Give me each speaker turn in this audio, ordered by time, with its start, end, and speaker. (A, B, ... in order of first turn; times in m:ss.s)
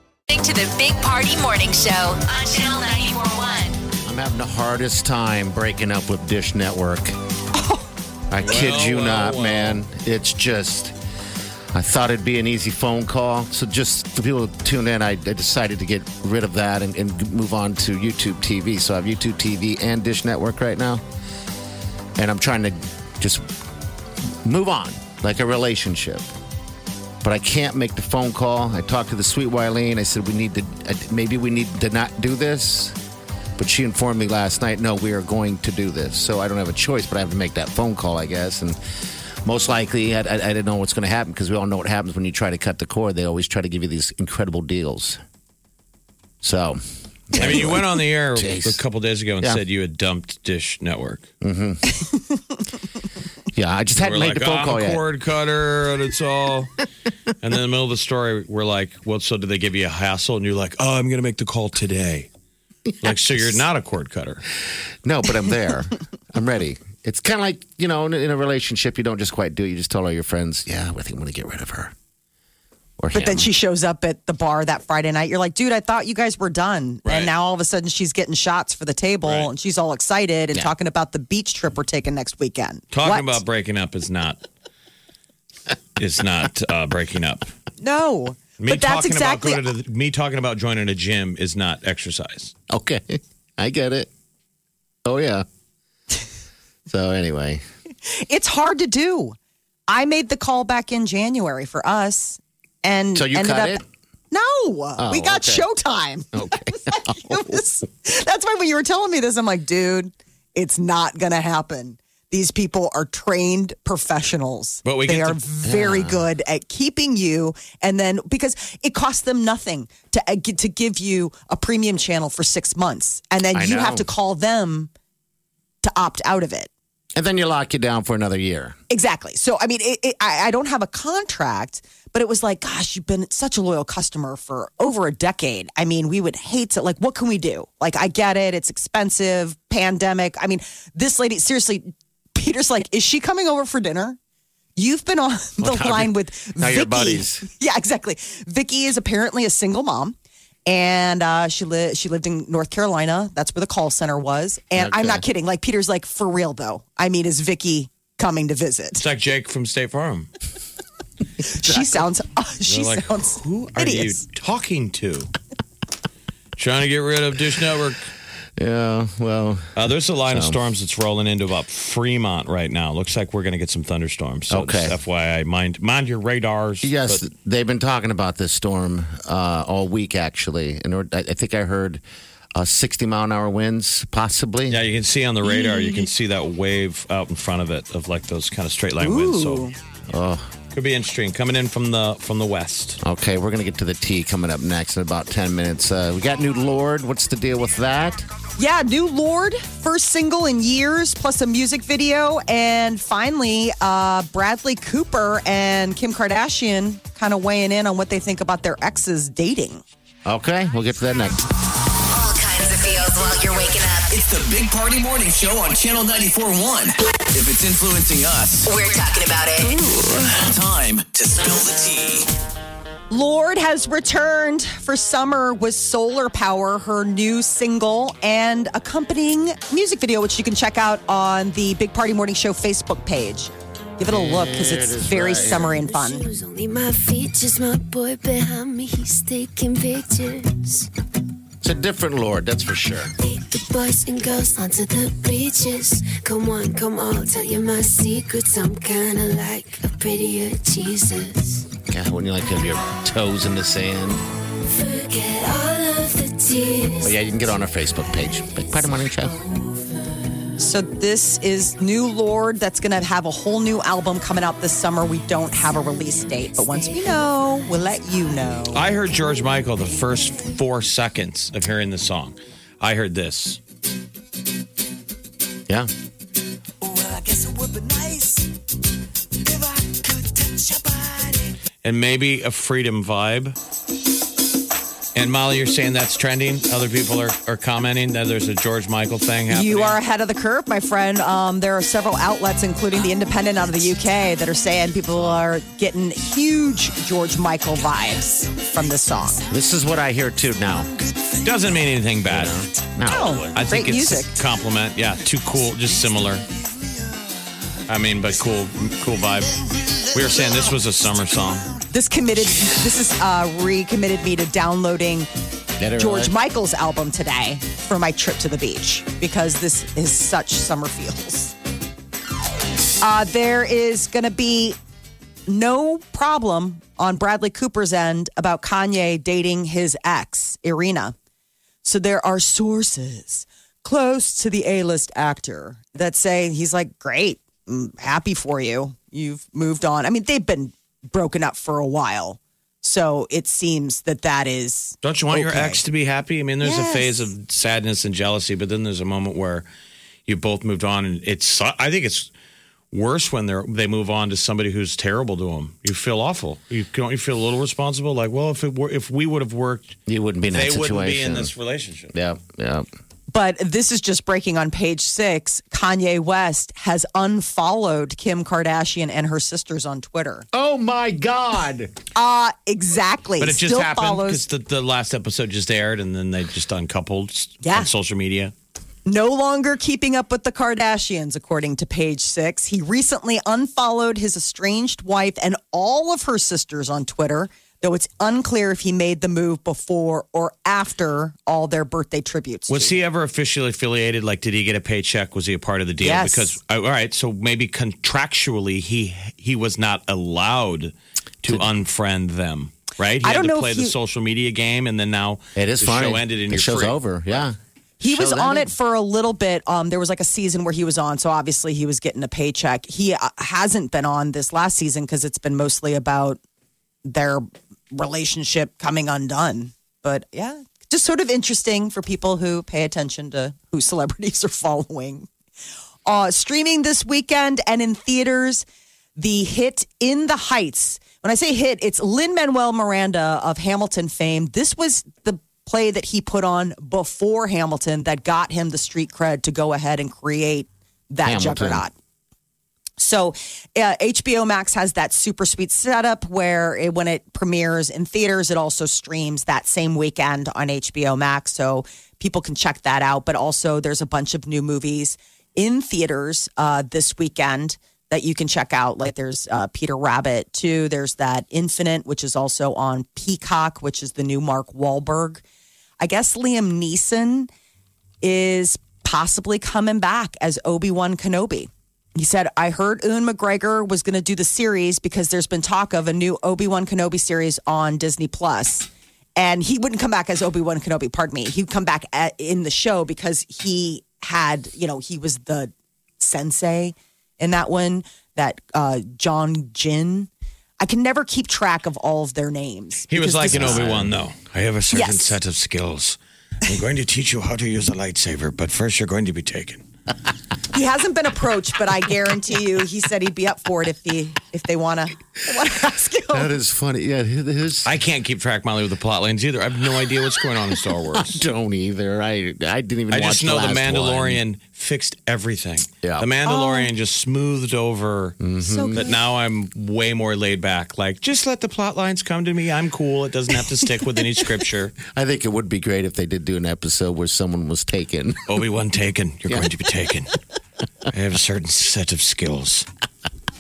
0:00.3-0:03.8 A
0:04.0-0:07.2 B
0:07.6-0:07.8 C
0:08.3-0:11.0 B
0:08.4-0:09.8 D
0:11.7-0:21.0 B
0:22.2-0:23.4 B
0:24.4-0:26.2 B
0:27.2-0:33.0 B
0:33.6-0:38.8 B
0:39.4-0:45.2 B
0:46.4-0:48.8 B
0:47.3-0:51.3 D
0:51.4-0:52.0 B
0:53.5-0:55.0 B
0:54.0-0:56.7 D
0:57.4-1:02.3 D
1:02.9-1:03.6 B
1:03.0-1:04.4 D
1:05.0-1:11.9 B
1:13.0-1:13.5 B
1:13.1-1:23.4 C
1:17.0-1:17.3 D
1:19.2-1:19.5 D
1:22.9-1:24.4 D
1:26.0-1:27.5 D
1:27.8-1:29.7 C
1:28.6-1:32.5 D
1:32.7-1:34.1 B
1:35.0-1:35.4 B
1:36.9-1:37.6 B
1:38.1-1:39.4 C
1:39.9-2:04.9 C
1:43.2-1:43.8 B
1:45.0-1:45.7 B
1:46.3-1:47.6 B
1:54.8-1:55.4 D
1:55.6-1:56.2 B
2:03.5-2:04.1 B
2:05.8-2:06.7 C
2:07.2-2:08.8 B
2:08.9-2:24.2 C
2:24.8-2:30.2 C
2:25.6-2:27.5 B
2:30.7-2:39.0 C
2:34.8-2:35.2 B
2:39.0-2:40.3 D
2:41.4-2:44.2 C
2:42.7-2:45.3 D
2:46.6-2:48.1 D
2:48.6-2:49.8 B
2:49.8-2:57.2 D
2:50.3-2:50.6 B
2:54.5-2:55.0 B
2:56.8-3:02.0 B
3:02.6-3:04.8 B
3:04.7-3:09.7 D
3:05.5-3:06.0 C
3:09.0-3:09.8 C
3:10.1-3:10.5 B
3:10.7-3:13.0 D
3:13.0-3:18.3 B
3:18.6-3:29.8 C
3:30.3-3:31.4 B
3:32.1-3:34.1 A
3:34.1-3:38.7 E
3:38.7-3:39.8 A
3:40.3-3:42.3 E
3:43.1-3:56.3 C
3:54.0-3:55.8 B
3:55.6-4:00.9 F
4:01.6-4:03.1 B
4:03.2-4:11.7 F
4:11.9-4:14.2 B
4:14.6-4:17.2 F
4:17.0-4:19.4 B
4:18.3-4:20.2 F
4:20.6-4:28.8 C
4:26.6-4:27.2 F
4:28.7-4:33.6 D
4:37.4-4:38.2 C
4:41.8-4:43.6 D
4:45.2-4:50.0 D
4:49.5-4:59.5 C
4:59.5-5:00.9 B
5:01.4-5:02.6 D
5:02.3-5:03.5 B
5:03.1-5:04.3 C
5:03.5-5:06.5 D
5:07.9-5:11.8 D
5:11.9-5:15.3 C
5:15.8-5:16.3 B
5:16.0-5:21.5 C
5:23.0-5:24.8 C
5:25.5-5:31.2 C
5:31.8-5:45.8 C
5:45.0-5:49.6 D
5:46.6-5:47.3 C
5:50.3-5:52.3 D
5:52.9-6:00.0 D
6:00.1-6:01.5 B
6:00.5-6:02.1 D
6:02.1-6:02.9 B
6:03.3-6:10.5 C
6:10.5-6:11.9 B
6:12.2-6:14.4 C
6:13.4-6:18.5 D
6:17.6-6:17.9 C
6:19.1-6:33.0 C
6:32.7-6:47.0 D
6:36.0-6:36.6 C
6:43.2-6:43.9 C
6:45.6-6:48.7 B
6:48.0-6:56.4 C
6:57.0-7:05.3 C
7:06.0-7:08.6 C
7:09.2-7:21.9 C
7:21.2-7:21.8 B
7:23.0-7:45.4 C
7:46.0-7:47.5 C
7:48.2-8:14.0 C
8:13.1-8:19.8 D
8:13.6-8:14.1 B
8:14.9-8:15.3 C
8:20.7-8:26.5 C
8:26.3-8:27.9 B
8:27.9-8:31.4 D
8:31.1-8:34.4 B
8:33.1-8:45.0 D
8:36.0-8:36.3 B
8:36.4-8:36.9 C
8:38.4-8:39.1 B
8:38.6-8:39.2 C
8:45.0-8:48.6 B
8:48.5-8:50.3 D
8:51.1-8:52.9 D